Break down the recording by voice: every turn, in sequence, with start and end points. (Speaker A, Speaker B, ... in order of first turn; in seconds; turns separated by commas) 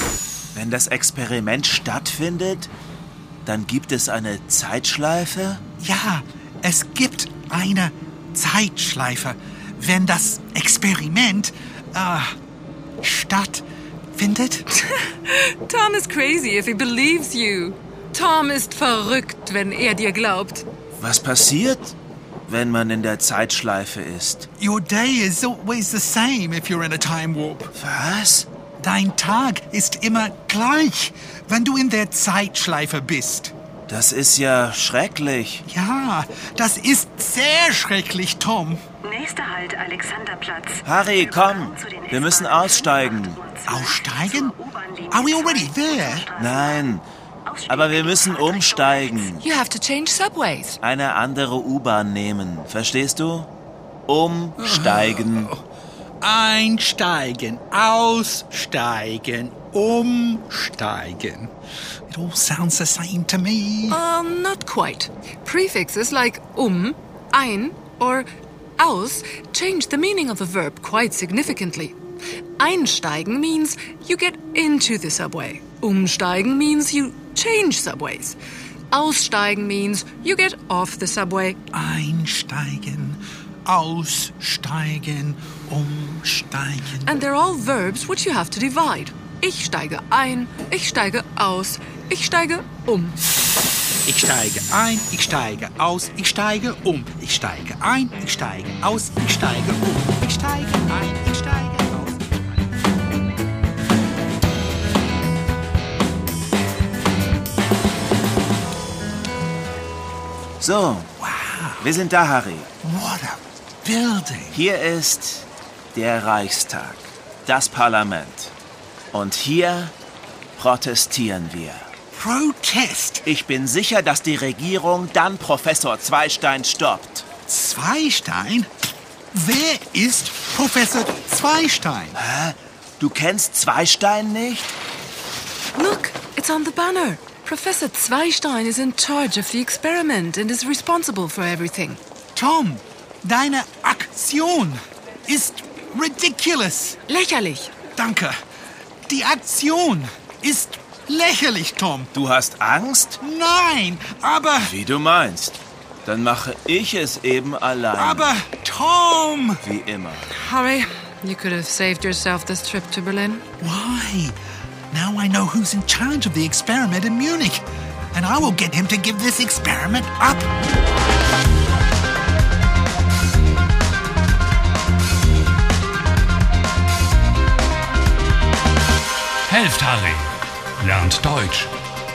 Speaker A: 0.5-2.7, Speaker A: 3.4-5.6, Speaker B: 5.8-12.3, Speaker B: 13.0-14.7, Speaker C: 14.8-20.6, Speaker A: 21.0-21.9, Speaker A: 22.5-24.4, Speaker B: 24.6-27.7, Speaker A: 27.8-28.5, Speaker B: 28.8-33.5, Speaker A: 33.9-35.6, Speaker B: 35.7-38.8, Speaker D: 39.0-40.8, Speaker A: 40.8-43.5, Speaker D: 41.8-42.1, Speaker D: 43.4-43.8, Speaker B: 43.6-46.3, Speaker D: 44.7-45.2, Speaker D: 45.7-46.3, Speaker A: 46.3-47.0, Speaker A: 47.6-49.4, Speaker C: 49.4-50.8, Speaker A: 50.8-53.5, Speaker A: 54.1-55.5, Speaker B: 54.6-55.6, Speaker B: 56.2-61.5, Speaker B: 62.1-64.0, Speaker C: 63.9-68.3, Speaker C: 68.8-71.9, Speaker C: 72.6-78.3, Speaker C: 78.9-81.6, Speaker B: 81.7-87.2, Speaker C: 87.0-93.2, Speaker B: 94.0-102.6, Speaker A: 110.6-111.1, Speaker B: 111.2-111.9, Speaker A: 111.8-112.7, Speaker B: 112.8-114.6, Speaker A: 114.5-118.5, Speaker A: 119.1-119.9, Speaker A: 120.6-121.9, Speaker B: 122.1-123.2, Speaker A: 123.2-127.3, Speaker B: 127.5-128.7, Speaker B: 129.3-132.2, Speaker A: 132.2-134.7, Speaker C: 135.7-142.0, Speaker B: 142.3-147.0, Speaker C: 147.1-147.7, Speaker B: 147.9-148.4, Speaker B: 149.1-152.1, Speaker A: 152.1-153.2, Speaker B: 153.2-154.8, Speaker A: 154.6-158.3, Speaker B: 157.9-159.6, Speaker A: 159.6-160.3, Speaker C: 160.3-163.4, Speaker B: 163.6-164.4, Speaker B: 164.9-170.5, Speaker E: 179.5-181.7